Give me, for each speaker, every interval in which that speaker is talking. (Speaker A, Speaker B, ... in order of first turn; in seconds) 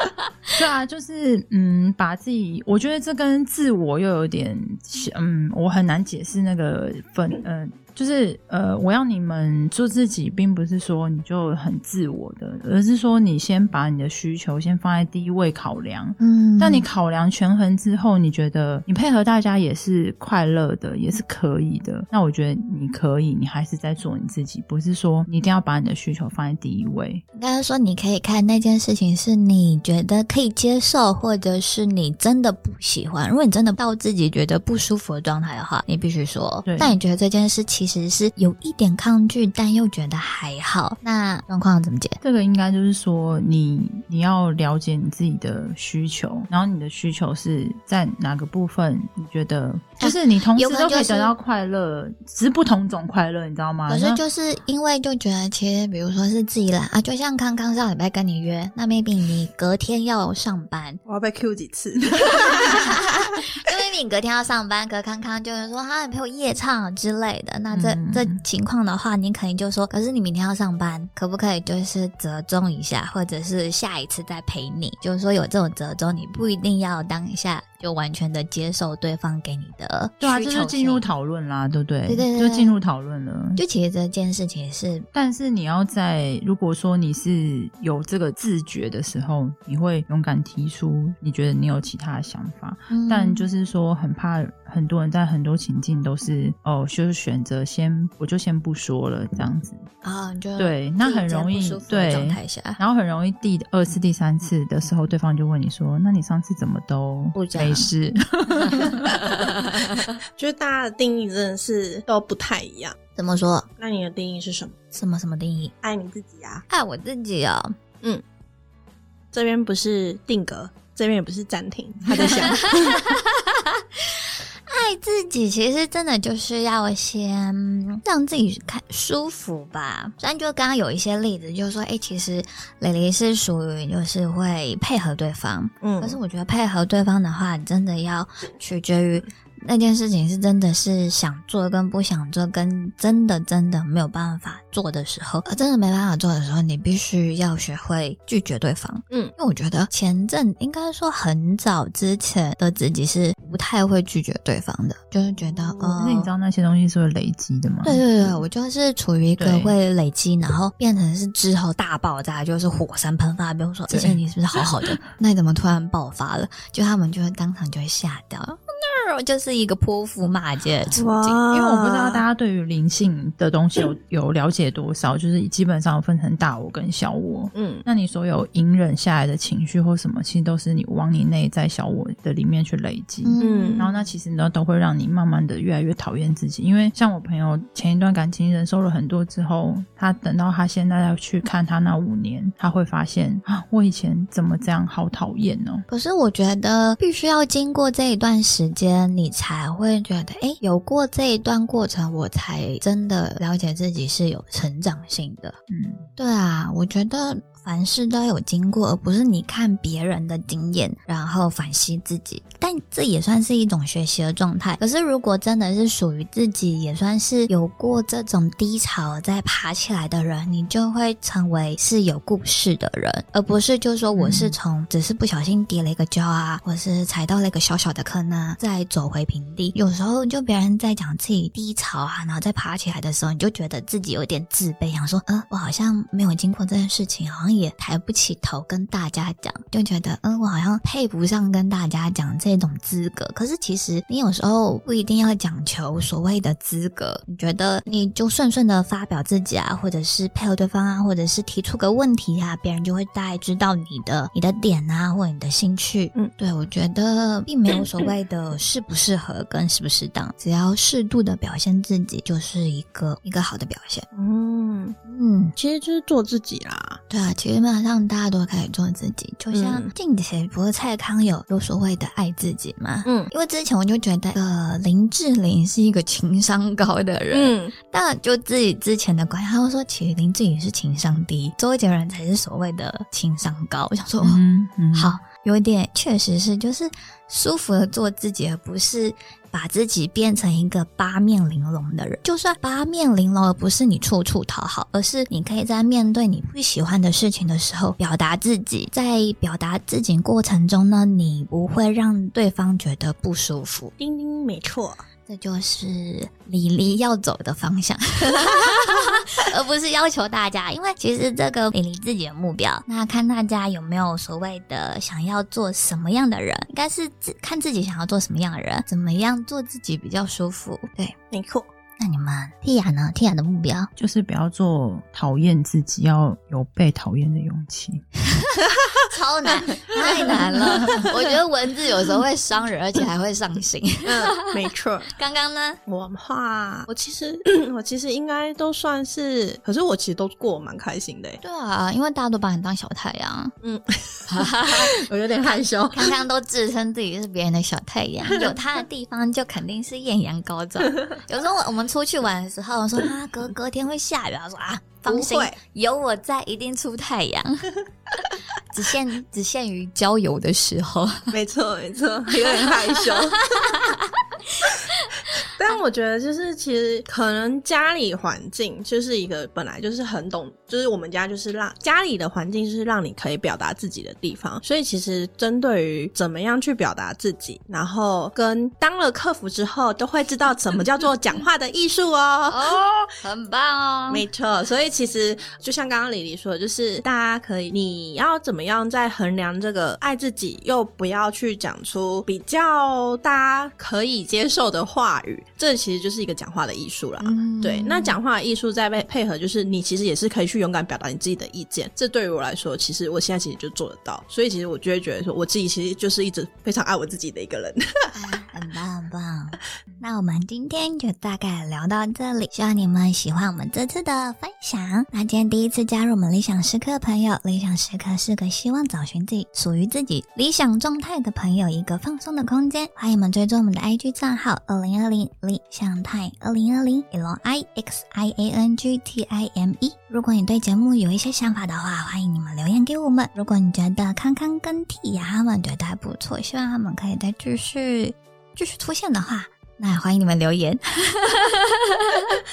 Speaker A: 0.5-27.2, 36.6-37.0, 42.2-54.2, 67.7-68.4, 80.2-83.6, 85.1-99.8, 100.6-109.2, 155.9-158.4, 159.4-159.7, 163.9-164.9, 171.5-195.8, 205.7-206.1, 224.1-224.6, 284.2-285.1, 324.0-328.0
Speaker B: 16.2-16.9, 27.4-42.2, 50.0-51.3, 53.9-61.0, 62.7-81.0, 82.1-82.8, 83.6-85.1, 92.9-93.5, 100.0-102.8, 107.3-107.9, 108.7-109.6, 113.1-113.7, 114.9-115.7, 116.7-117.7, 122.4-123.6, 124.7-156.3, 157.8-171.4, 183.2-183.9, 195.9-205.6, 206.2-264.1, 265.1-265.5, 267.1-284.4, 284.9-303.9, 305.3-321.1, 322.0-323.9, 329.1-334.4, 335.1-335.8, 341.4-343.5, 344.3-344.9, 345.9-357.7, 358.7-361.3, 363.6-364.0, 364.6-365.3, 382.5-384.3, 397.2-398.2, 408.1-442.3
Speaker C: 61.0-62.8, 110.4-112.9, 113.8-114.7, 115.8-116.6, 119.3-123.0, 135.8-136.2, 155.7-156.0, 170.9-172.2, 177.5-177.8, 183.4-183.9, 264.1-264.9, 265.6-267.0, 269.5-269.9, 273.0-273.3, 277.3-277.7, 304.0-305.0, 321.3-321.7, 329.5-331.0, 334.1-335.1, 335.9-341.4, 343.6-346.1, 355.1-355.6, 361.3-363.8, 365.5-382.8, 384.1-407.8